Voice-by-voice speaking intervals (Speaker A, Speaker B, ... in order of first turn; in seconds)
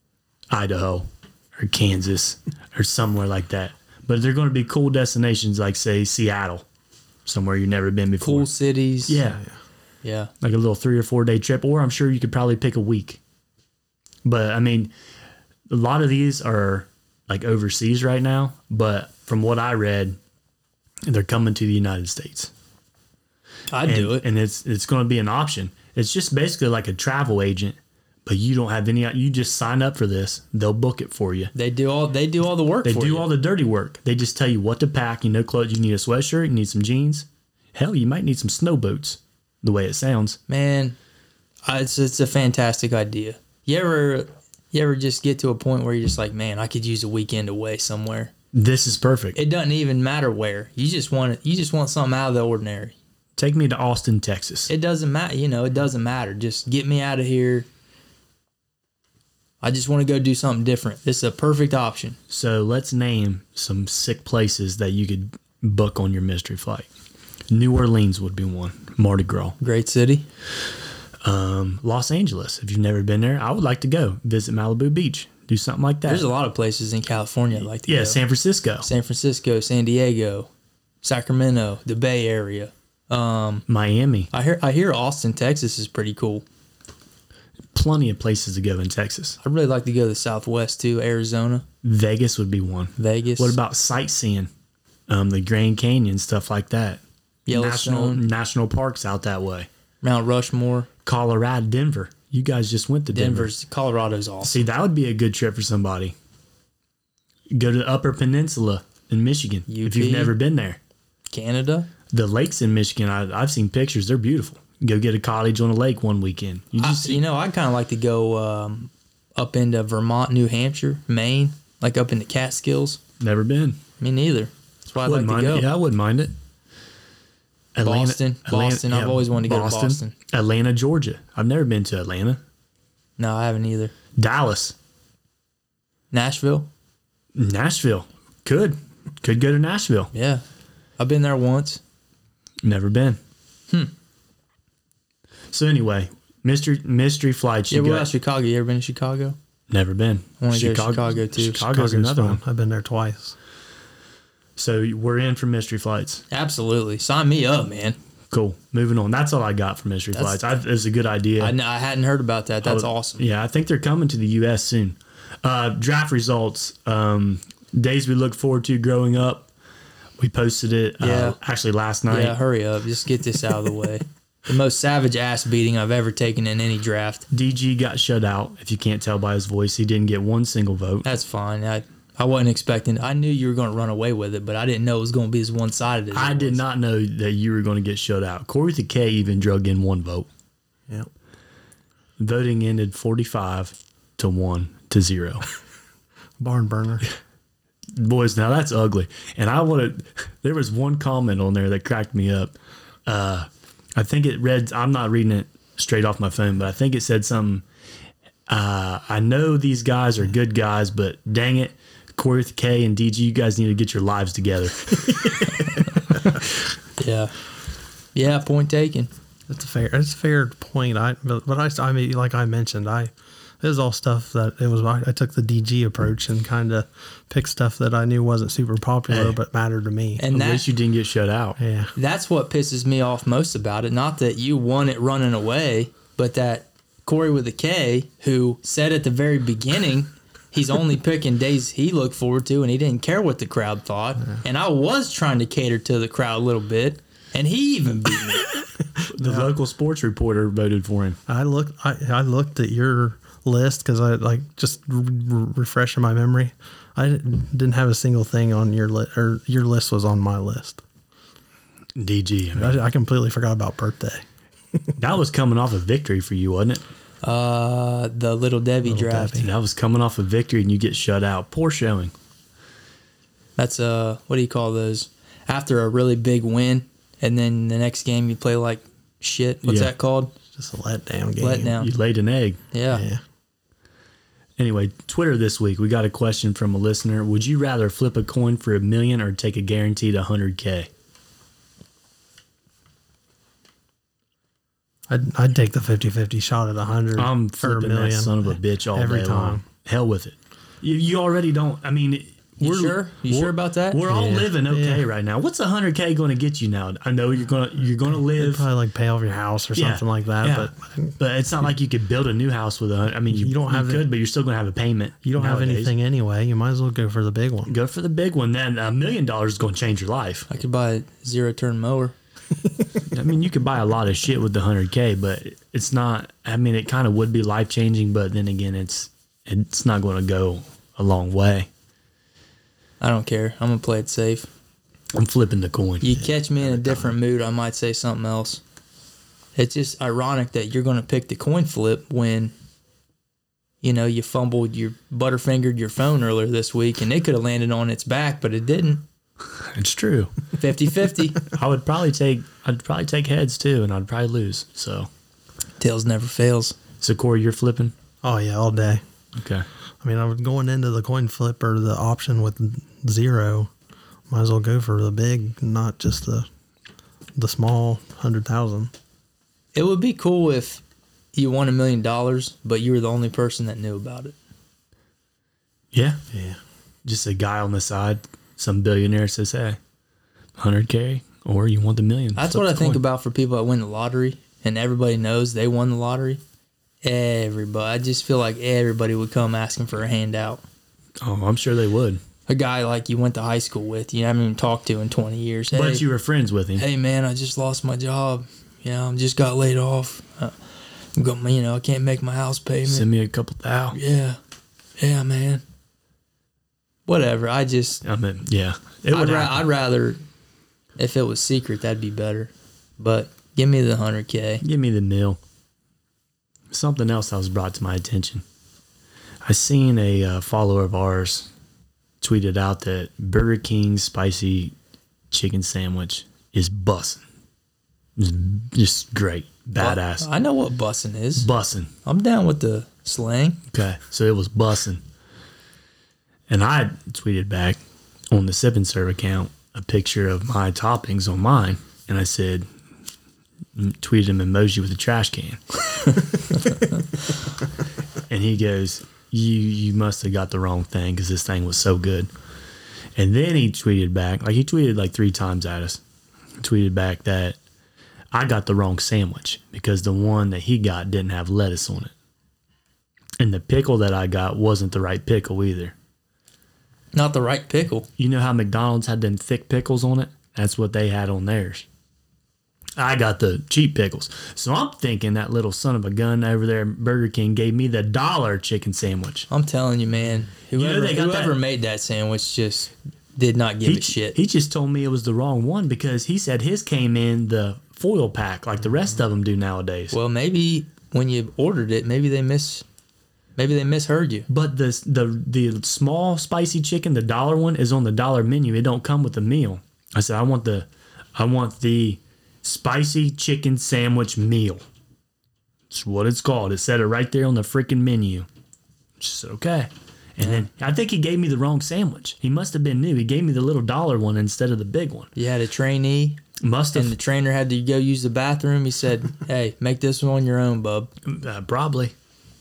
Speaker A: 0.5-6.7, 7.3-8.5, 9.1-9.4, 10.4-13.2, 14.2-14.9, 15.7-20.2, 21.1-22.5, 23.9-31.5, 32.8-40.4, 48.5-49.4, 53.4-54.7, 62.3-66.9, 67.5-69.6, 71.2-76.3, 77.6-78.9, 83.7-84.3, 87.7-89.4, 91.8-94.5, 95.1-99.7, 101.0-103.5, 104.4-106.2, 107.5-110.8, 112.1-117.2, 123.2-123.8, 125.0-126.3, 127.8-132.4, 134.2-134.8, 137.3-140.1, 142.6-143.2, 145.5-148.1, 149.7-152.4, 154.6-156.2, 158.3-161.6, 162.6-169.5, 170.2-172.4, 177.3-181.1, 186.1-190.3, 192.2-195.4, 197.9-207.7, 208.5-215.4, 229.1-229.4, 230.3-231.6, 249.1-251.2, 262.0-262.8, 265.0-266.8, 269.4-272.1, 279.6-279.9, 281.8-282.6, 284.6-290.9, 297.1-308.7, 309.8-315.9, 317.7-320.5, 323.1-331.7, 335.1-336.1, 349.6-350.3, 351.5-355.1, 357.0-357.9, 359.4-359.7, 375.9-376.2, 377.1-379.8, 380.6-383.0, 391.2-392.2, 395.7-396.9, 402.9-404.0, 408.0-409.6, 414.6-415.4, 416.7-418.4, 419.4-421.5, 422.2-424.8, 425.3-427.2, 428.2-430.3, 431.4-431.9, 433.7-435.0, 436.5-437.8, 438.3-442.7, 443.8-446.1, 448.3-452.3, 453.2-456.0, 456.6-457.6, 458.3-462.1, 463.4-465.9, 468.2-471.9, 473.0-479.5, 480.7-481.6, 483.8-490.1, 494.5-504.8, 505.9-508.5, 509.2-515.3, 516.6-517.2, 521.2-522.1
Speaker B: 8.2-9.2, 10.0-10.3, 23.7-24.2, 31.5-33.3, 40.5-41.0, 41.7-48.3, 49.4-53.0, 54.7-57.7, 59.6-62.2, 69.6-70.3, 76.1-78.2, 78.8-80.5, 81.0-83.7, 84.3-86.5, 89.4-91.7, 93.0-93.6, 97.5-98.2, 100.0-100.9, 103.1-104.6, 109.7-110.3, 111.3-111.9, 116.8-123.0, 124.0-125.7, 127.8-130.2, 133.2-133.9, 136.1-136.7, 140.1-140.4, 141.0-141.8, 147.7-149.4, 150.4-151.6, 156.3-158.0, 160.1-160.4, 161.4-163.2, 171.0-171.4, 172.1-177.3, 181.0-186.6, 217.0-217.3, 218.2-219.1, 230.2-230.7, 231.9-248.5, 267.2-269.5, 273.6-280.3, 281.4-281.9, 282.7-283.0, 302.6-304.2, 320.5-322.1, 333.0-334.5, 336.0-338.6, 339.6-342.5, 343.8-349.0, 350.6-351.4, 355.8-356.8, 369.8-370.8, 371.4-374.4, 382.4-386.4, 387.0-390.6, 392.5-396.1, 396.8-400.6, 401.2-403.1, 403.9-404.4, 405.0-405.6, 407.1-408.0, 409.1-410.2, 411.0-414.6, 429.8-431.5, 432.1-433.6, 467.1-468.1, 479.5-484.4, 490.1-492.8, 493.6-494.5, 515.4-516.4, 516.9-521.1
Speaker C: 151.6-153.4, 196.4-197.1, 219.5-230.2, 231.6-231.9, 249.1-249.5, 251.3-260.8, 262.6-264.9, 268.9-269.5, 280.5-281.8, 282.9-283.2, 295.1-299.6, 304.1-305.1, 308.2-311.2, 313.3-314.1, 315.2-317.8, 336.6-337.1, 358.2-359.0, 360.0-363.7, 364.3-366.5, 367.4-368.9, 376.3-376.6